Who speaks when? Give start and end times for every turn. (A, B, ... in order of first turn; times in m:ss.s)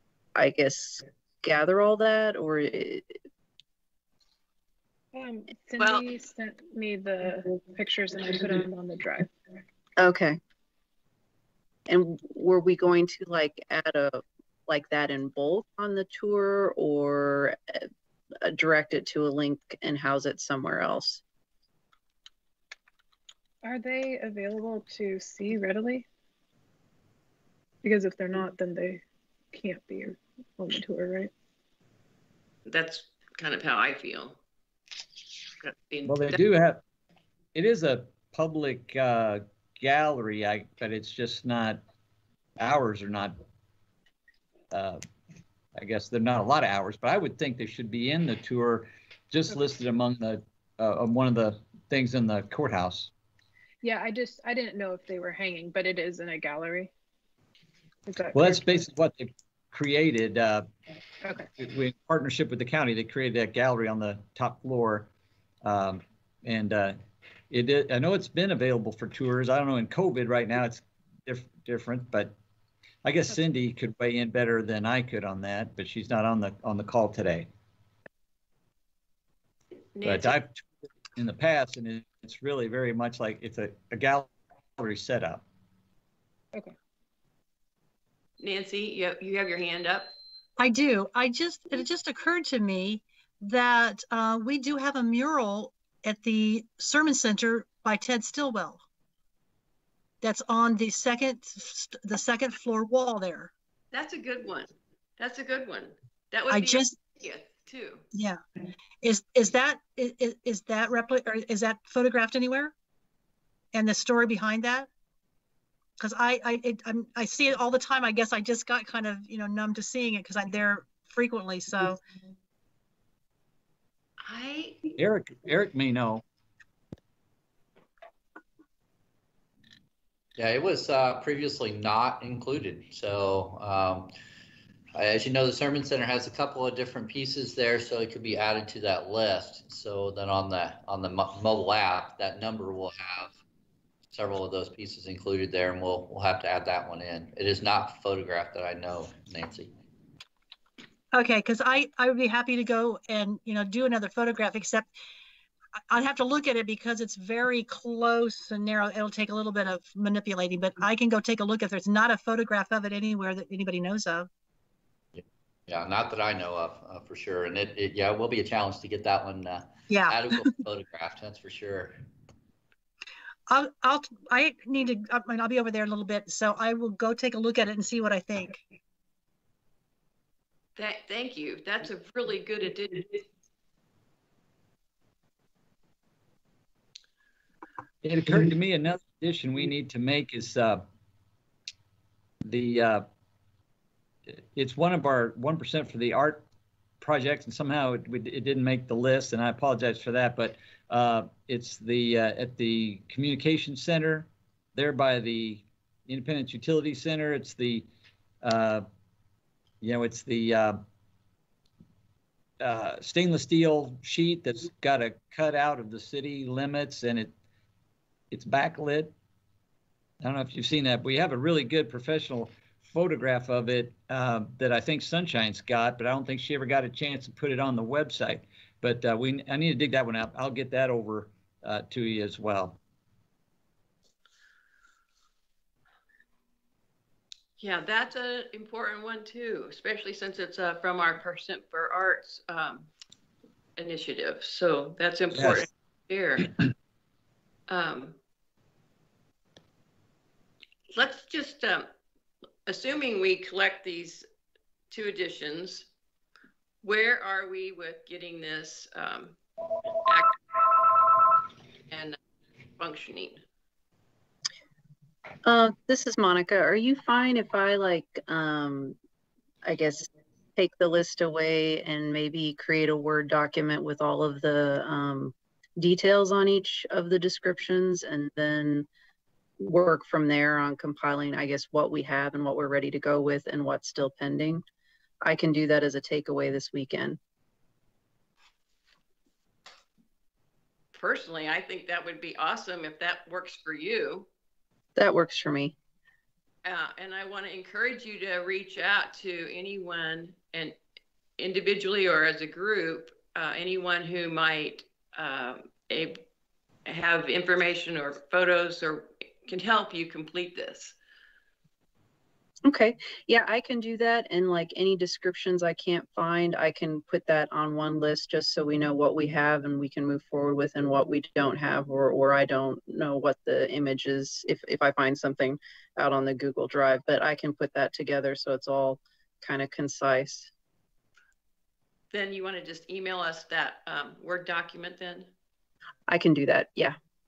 0:00.3-0:03.2 A
0:05.1-0:09.3 B
0:05.8-0:06.0 C
0:10.0-0:10.4 A
0:11.9-0:17.9 A
0:18.4-0:21.2 A
0:23.6-0:26.1 B
0:27.8-0:31.3 B
0:32.6-0:34.4 C
0:35.6-0:36.4 C
0:36.0-0:36.8 D
0:37.5-0:41.8 D
0:42.6-0:43.3 D
0:44.7-0:45.0 D
0:45.8-0:53.1 D
0:53.8-0:56.9 B
0:58.1-0:58.8 B
0:58.3-1:00.6 D
1:01.6-1:05.1 D
1:05.6-1:07.0 D
1:07.5-1:12.3 D
1:13.0-1:17.5 D
1:20.0-1:20.4 C
1:20.0-1:25.4 D
1:28.4-1:30.2 C
1:30.6-1:38.8 E
1:40.2-1:43.5 E
1:43.9-1:48.0 C
1:46.5-1:47.0 E
1:48.1-1:48.4 E
1:49.0-1:52.7 E
1:53.7-1:54.9 E
1:56.0-2:02.0 E
2:04.2-2:04.8 C
2:05.0-2:06.2 D
2:10.4-2:14.1 F
2:14.9-2:23.4 F
2:24.1-2:29.7 F
2:31.1-2:34.9 E
2:35.9-2:44.3 E
2:45.1-2:52.0 F
2:49.9-2:50.5 E
2:53.5-2:58.6 E
3:00.8-3:03.2 C
3:08.0-3:10.8 D
3:12.4-3:13.0 D
3:14.5-3:16.4 D
3:17.0-3:27.8 D
3:28.4-3:28.8 D
3:29.8-3:30.8 D
3:32.6-3:37.3 D
3:38.3-3:39.1 D
3:40.2-3:52.8 D
3:57.6-4:02.9 C
4:03.8-4:06.5 C
4:05.3-4:05.6 D
4:07.7-4:08.2 C
4:10.9-4:11.9 C
4:12.6-4:14.2 C
4:14.9-4:15.9 C
4:16.8-4:19.4 C
4:20.0-4:20.4 C
4:21.9-4:22.2 C
4:22.8-4:23.4 C
4:25.4-4:29.0 A
4:29.6-4:38.9 A
4:39.6-4:44.6 A
4:45.2-4:47.2 A
4:50.9-4:54.3 C
4:55.0-4:55.8 A
4:56.6-5:00.8 C
5:01.4-5:06.2 C
5:06.8-5:11.0 C
5:12.6-5:30.5 A
5:32.1-5:35.3 C
5:36.1-5:37.0 A